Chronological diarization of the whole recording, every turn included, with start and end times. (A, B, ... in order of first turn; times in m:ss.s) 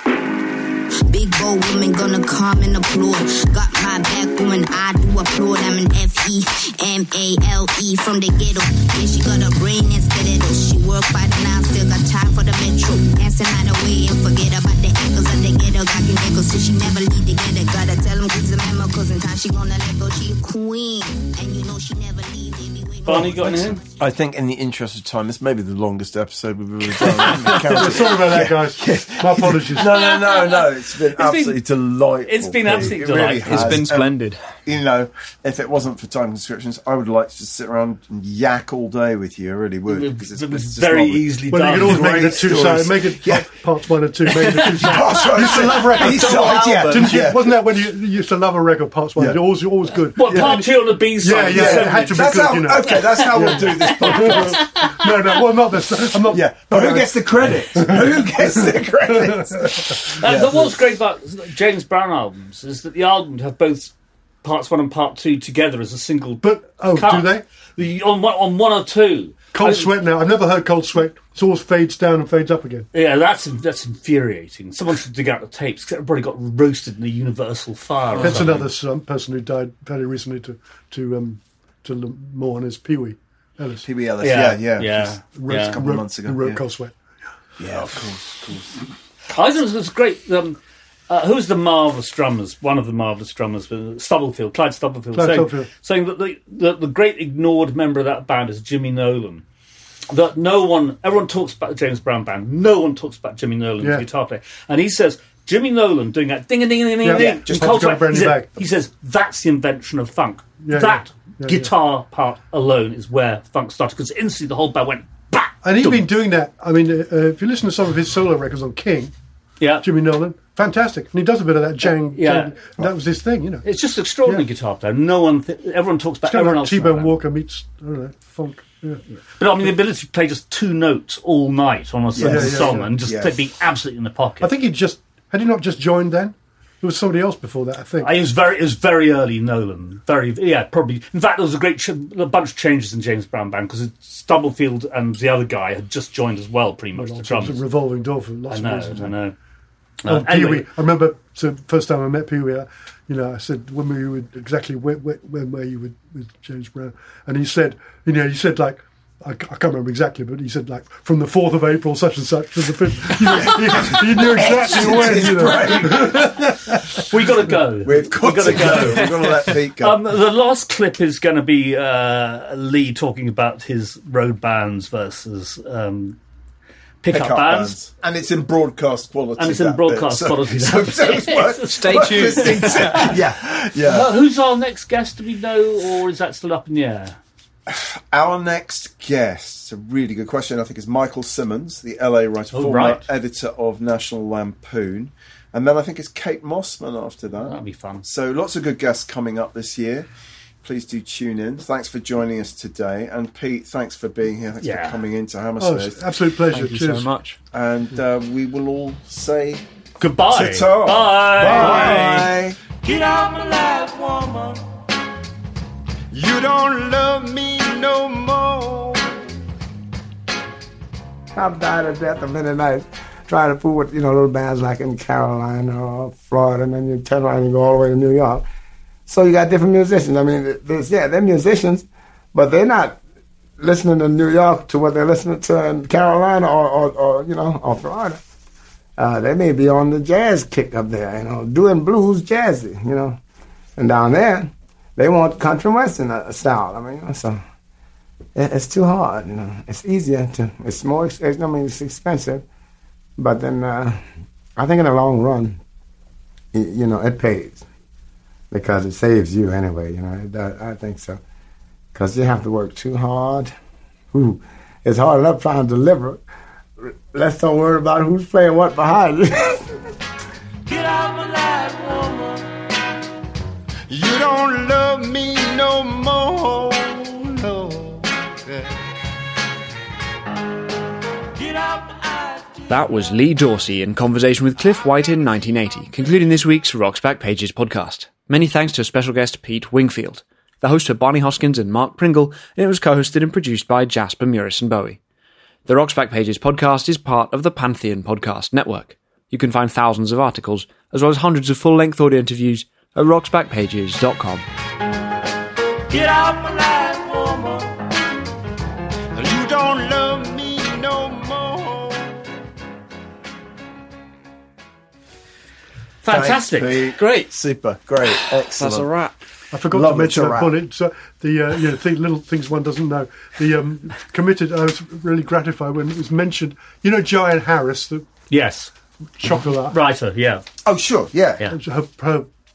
0:01.1-0:23.8 A
0:23.0-0:23.8 B
0:23.8-0:43.5 C
0:27.3-0:30.1 D
0:30.0-0:30.6 B
0:31.2-0:31.6 B
0:32.2-0:33.9 B
0:33.4-0:34.4 E
0:39.9-0:42.6 B
0:41.5-0:59.7 D
0:44.4-0:47.6 C
0:46.2-0:47.1 E
0:49.2-0:49.4 C
0:50.1-0:55.0 B
0:50.2-0:50.6 C
0:51.5-0:54.7 C
0:56.3-1:00.7 C
1:00.2-1:09.9 B
1:06.4-1:07.4 D
1:09.5-1:12.9 D
1:12.9-1:18.6 B
1:18.2-1:18.6 C
1:18.2-1:23.8 D
1:23.8-1:26.6 C
1:24.2-1:25.8 B
1:25.3-1:27.0 D
1:27.6-1:28.8 C
1:29.3-1:39.4 B
1:35.1-1:35.7 D
1:40.1-1:56.1 B
1:43.8-1:44.0 D
1:47.0-1:48.5 D
1:47.1-1:48.3 C
1:50.6-1:51.7 D
1:55.6-1:59.1 D
1:59.6-1:59.8 B
1:59.8-2:03.6 D
2:02.1-2:02.5 B
2:03.6-2:07.1 B
2:06.2-2:09.0 D
2:09.4-2:14.5 B
2:12.2-2:13.4 C
2:12.2-2:12.9 D
2:14.4-2:18.2 D
2:18.0-2:27.6 B
2:26.9-2:29.1 D
2:28.5-2:29.3 B
2:30.0-2:30.7 B
2:30.0-2:47.0 D
2:43.4-2:46.4 C
2:47.0-2:56.2 B
2:47.8-2:50.0 C
2:49.0-2:49.3 E
2:57.0-2:57.8 B
2:57.1-3:04.1 C
2:59.4-3:03.2 B
3:01.6-3:03.1 E
3:03.8-3:07.2 B
3:07.7-3:20.1 C
3:12.5-3:13.1 B
3:17.4-3:18.0 B
3:20.6-3:26.0 C
3:24.6-3:25.0 B
3:25.6-3:27.1 D
3:26.5-3:27.4 E
3:27.5-3:29.6 C
3:30.0-3:32.0 B
3:30.3-3:32.6 C
3:31.8-3:32.3 E
3:32.8-3:34.6 F
3:36.1-3:39.1 G
3:41.3-3:48.4 G
3:49.1-3:53.0 G
3:53.6-3:58.2 G
3:59.0-4:03.2 G
4:03.8-4:07.4 G
4:08.4-4:12.4 G
4:13.2-4:14.0 G
4:14.6-4:15.6 G
4:16.5-4:17.6 G
4:18.5-4:21.2 G
4:21.9-4:23.5 G
4:24.1-4:26.2 G
4:26.8-4:29.7 G
4:30.6-4:32.5 F
4:33.9-4:38.7 G
4:41.4-4:42.6 F
4:42.7-4:55.0 E
4:55.6-5:04.4 E
5:05.9-5:07.8 F
5:09.2-5:12.1 G
5:16.0-5:16.8 B
5:16.1-5:18.9 C
5:16.9-5:17.3 E
5:18.0-5:19.2 E
5:19.5-5:28.0 D
5:19.7-5:20.6 C
5:28.3-5:28.7 B
5:29.2-5:29.8 D
5:29.7-5:30.4 B
5:30.6-5:31.4 C
5:31.5-5:32.3 D